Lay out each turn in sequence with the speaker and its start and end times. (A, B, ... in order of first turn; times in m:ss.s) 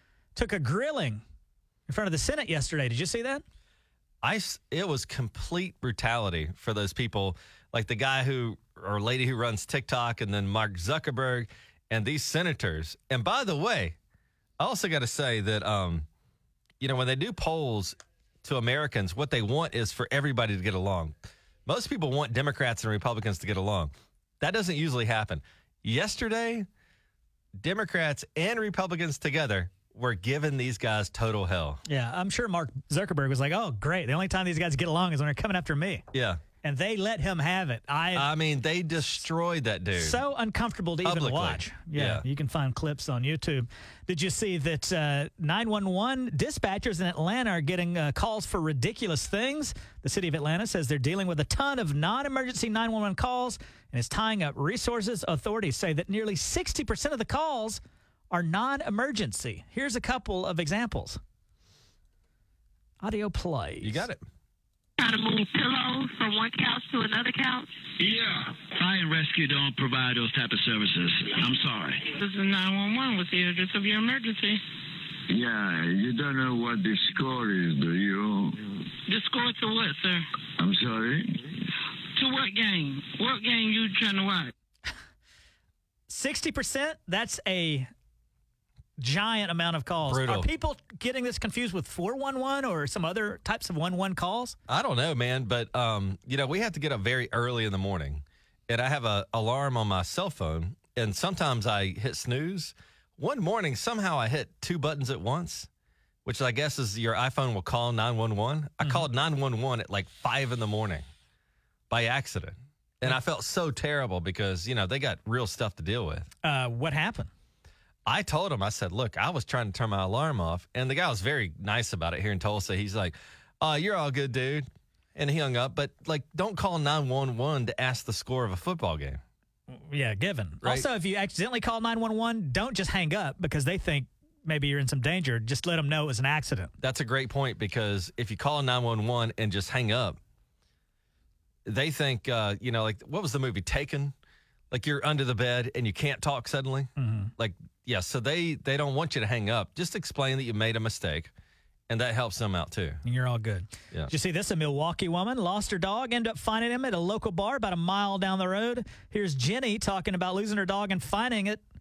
0:00.3-0:01.2 A
0:01.9-0:03.4 A
0:04.2-0:14.0 B
0:14.6-0:16.1 B
0:16.8-0:21.1 B
0:21.6-0:26.7 B
0:27.6-0:31.8 B
0:31.8-0:36.0 A
0:36.1-0:36.4 B
0:36.6-0:38.3 A
0:38.1-0:40.2 B
0:40.0-1:01.2 A
0:41.0-0:42.2 B
1:03.0-1:04.0 A
1:03.8-1:04.2 B
1:05.0-1:07.7 C
1:08.0-1:12.1 D
1:12.2-1:14.6 C
1:15.3-1:18.6 E
1:19.1-1:20.2 C
1:20.6-1:21.4 E
1:22.1-1:24.5 C
1:26.1-1:27.9 A
1:29.0-1:34.6 A
1:30.0-1:30.5 B
1:34.7-1:45.7 B
1:46.2-1:51.0 B
1:51.9-1:56.3 B
1:56.4-1:57.3 A
1:58.0-2:09.2 B
2:09.7-2:16.7 A
2:16.8-2:20.2 B
2:21.6-2:24.1 B
2:24.7-2:31.3 B
2:27.0-2:27.3 A
2:31.9-2:33.0 B
2:33.0-2:41.6 A